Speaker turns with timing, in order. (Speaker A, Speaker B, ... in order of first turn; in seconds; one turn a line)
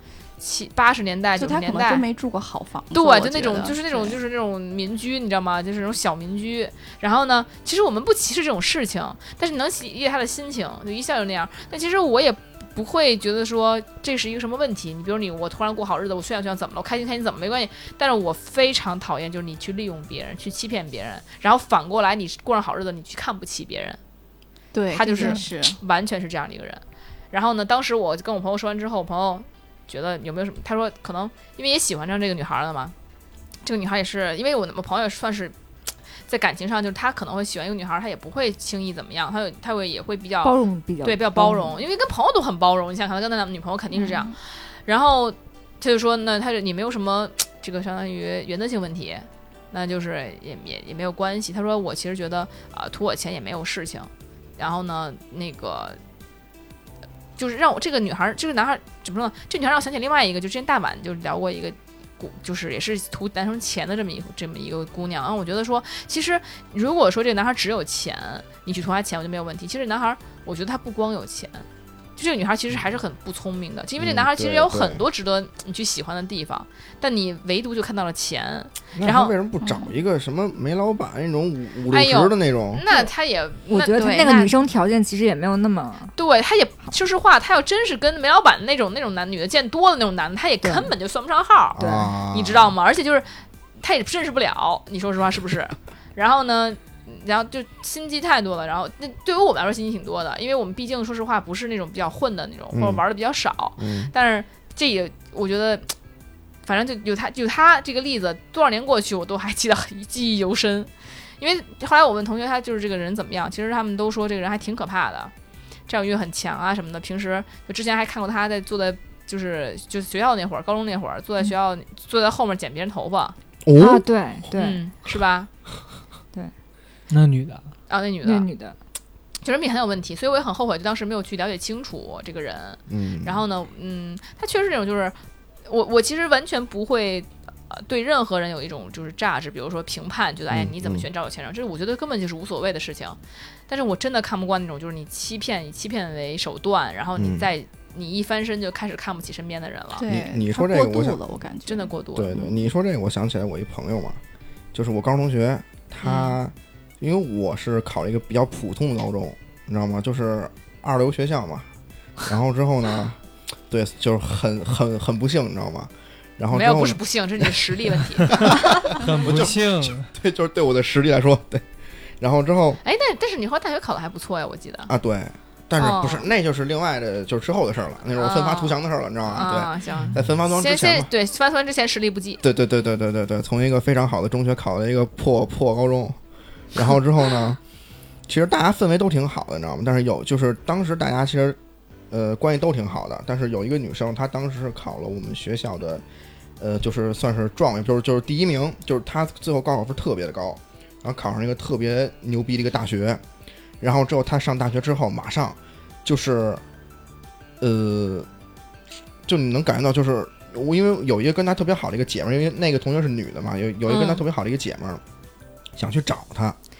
Speaker A: 0.4-2.0
Speaker B: 1.4-4.2
Speaker A: 2.9-24.0
Speaker B: 24.7-25.8
Speaker A: 24.9-32.9
Speaker C: 25.2-25.4
Speaker A: 33.6-35.5
Speaker A: 36.3-56.0
Speaker C: 40.4-41.8
Speaker B: 43.9-44.3
Speaker A: 57.4-71.7
Speaker A: 72.2-79.3
Speaker D: 74.0-75.0
Speaker D: 79.0-82.8
Speaker B: 79.6-79.9
Speaker A: 81.9-84.1
Speaker C: 83.7-86.1
Speaker B: 83.9-84.5
Speaker A: 86.2-105.9
Speaker D: 91.8-92.7
Speaker C: 91.8-92.1
Speaker D: 102.7-103.0
Speaker D: 103.8-104.1
Speaker A: 106.6-115.3
Speaker A: 115.9-123.4
Speaker D: 123.6-124.0
Speaker C: 123.8-124.8
Speaker A: 124.5-125.5
Speaker E: 127.1-127.7
Speaker A: 127.9-128.5
Speaker C: 128.2-128.8
Speaker A: 129.4-150.1
Speaker D: 132.9-133.4
Speaker D: 140.5-141.1
Speaker D: 147.2-147.5
Speaker B: 149.9-152.6
Speaker D: 150.1-151.2
Speaker A: 151.7-152.4
Speaker D: 152.1-154.2
Speaker D: 154.7-161.7
Speaker A: 156.0-156.4
Speaker D: 162.2-163.2
Speaker D: 163.7-167.7
Speaker A: 166.5-168.5
Speaker D: 168.3-171.6
Speaker E: 168.8-170.1
Speaker D: 172.2-172.8
Speaker A: 172.8-174.9
Speaker D: 174.9-181.1
Speaker A: 175.8-176.3
Speaker A: 178.2-182.4
Speaker E: 179.9-180.2
Speaker D: 182.4-186.2
Speaker D: 186.7-187.6
Speaker D: 188.3-191.6
Speaker D: 192.1-196.0
Speaker D: 196.6-203.2
Speaker D: 203.8-206.6
Speaker D: 207.6-208.3
Speaker D: 209.3-215.0
Speaker A: 213.9-214.2
Speaker D: 215.8-216.6